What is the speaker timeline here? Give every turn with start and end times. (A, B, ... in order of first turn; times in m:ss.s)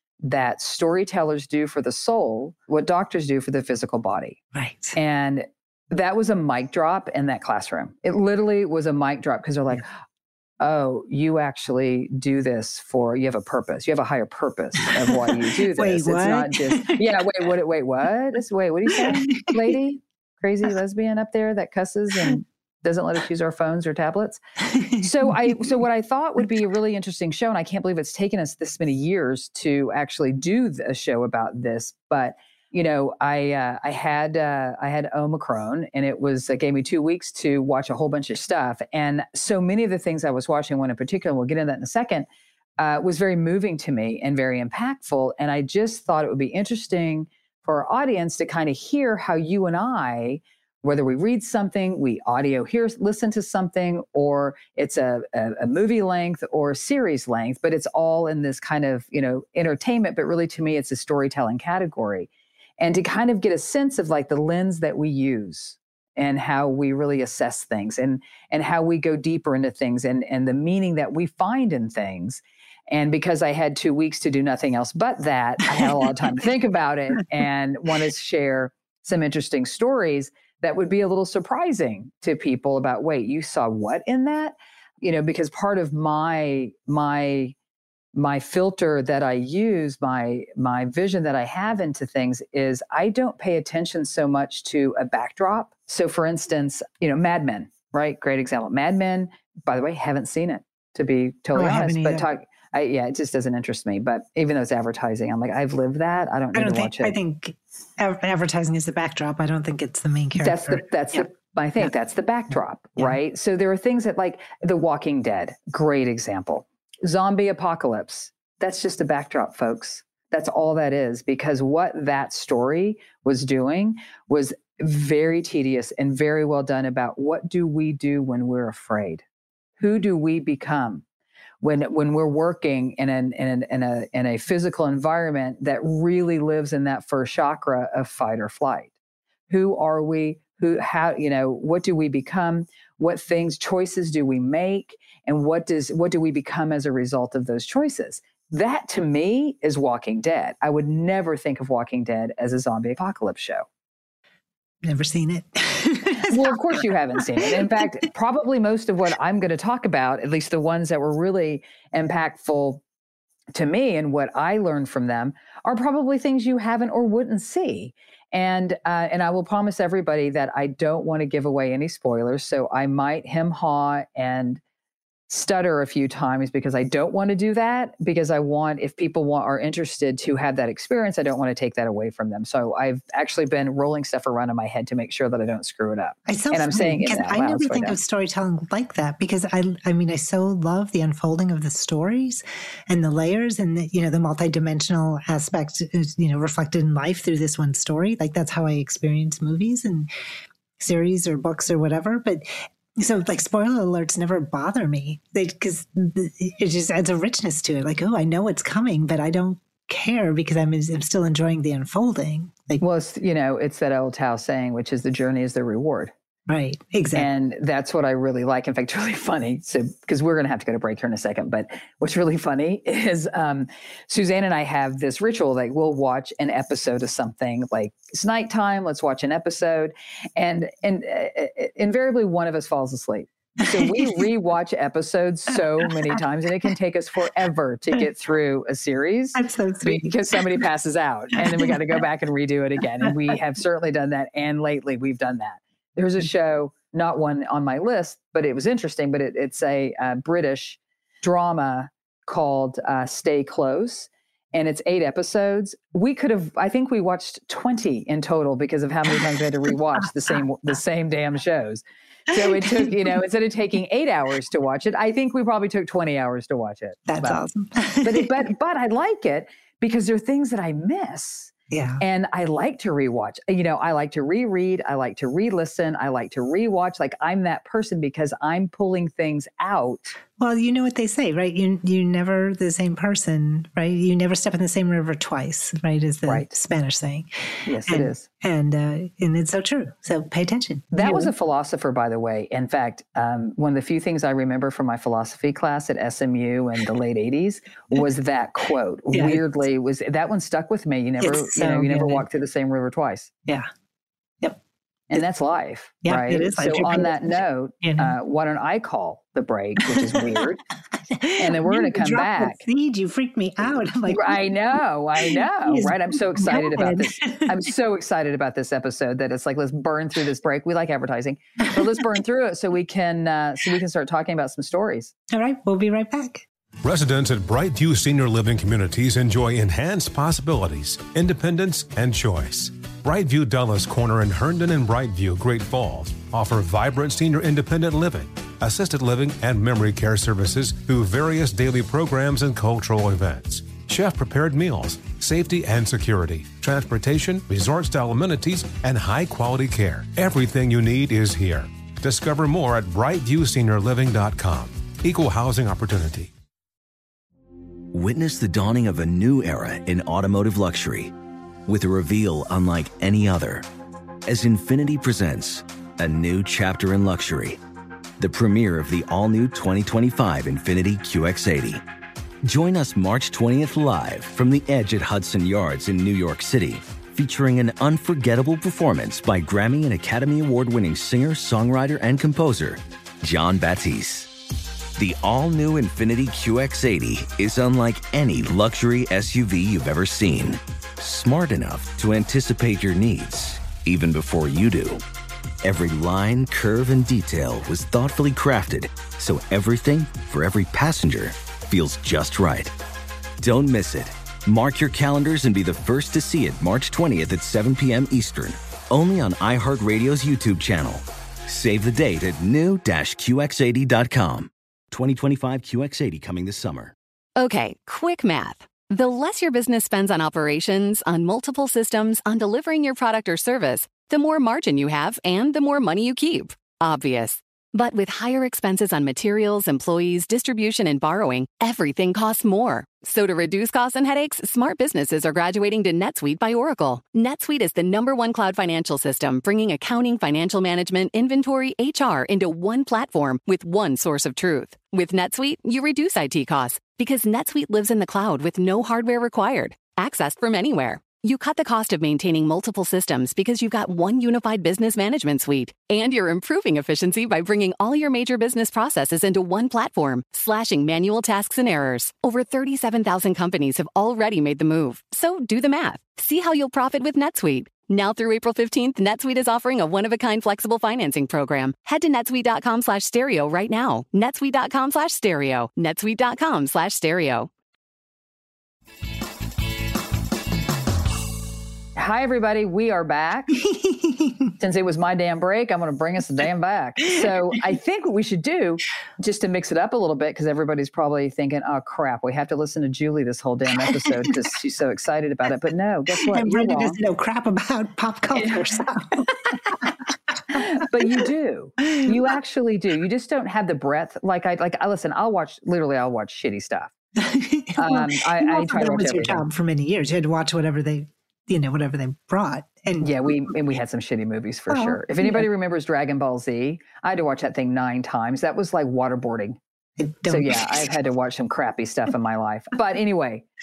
0:00.2-0:04.4 A
0:04.5-0:05.0 B
0:05.0-0:09.9 A
0:10.6-0:24.4 A
0:14.8-0:17.2 B
0:18.9-0:19.7 B
0:24.6-0:25.8 B
0:25.0-0:42.3 A
0:42.8-1:02.3 A
1:02.8-1:27.6 A
1:28.2-1:47.2 A
1:41.5-1:42.3 B
1:46.5-1:51.3 B
1:50.4-2:09.2 A
2:09.8-2:11.0 A
2:11.6-2:18.9 A
2:19.5-2:33.7 A
2:34.8-2:37.8 B
2:36.2-2:42.8 A
2:43.5-2:54.6 A
2:55.3-3:08.0 A
3:06.3-3:20.1 B
3:20.8-3:32.8 B
3:32.8-3:36.1 A
3:36.5-3:37.3 B
3:37.1-4:27.4 A
3:53.6-3:54.2 B
3:59.3-4:00.6 B
4:01.4-4:02.0 B
4:19.1-4:20.1 B
4:22.3-4:23.1 B
4:27.1-4:28.4 B
4:28.0-4:40.2 A
4:31.7-4:32.0 B
4:40.4-4:51.3 B
4:47.7-4:48.2 A
4:50.9-5:03.3 A
4:59.1-4:59.4 B
5:01.2-5:02.3 B
5:05.1-5:10.6 A
5:06.0-5:08.2 B
5:09.9-5:10.4 B
5:10.9-5:14.5 B
5:11.4-5:12.6 A
5:14.1-5:25.1 A
5:15.2-5:17.6 B
5:25.3-5:26.5 B
5:26.8-5:56.3 C
5:57.9-6:01.1 D
6:01.7-6:03.7 D
6:04.3-6:07.6 D
6:08.2-6:11.8 D
6:12.4-6:24.3 D
6:25.0-6:35.0 D
6:35.6-6:42.7 D
6:43.4-6:56.9 D
6:57.4-7:57.5 E
8:02.0-8:03.6 A
8:03.6-8:04.5 B
8:04.6-8:17.0 A
8:13.8-8:14.3 B
8:16.1-8:21.3 B
8:18.4-8:19.3 A
8:20.5-8:26.9 A
8:21.9-8:22.2 B
8:27.2-8:33.5 B
8:27.8-8:29.4 A
8:33.0-8:39.6 A
8:34.7-8:35.5 B
8:40.0-8:40.9 B
8:40.3-8:43.4 A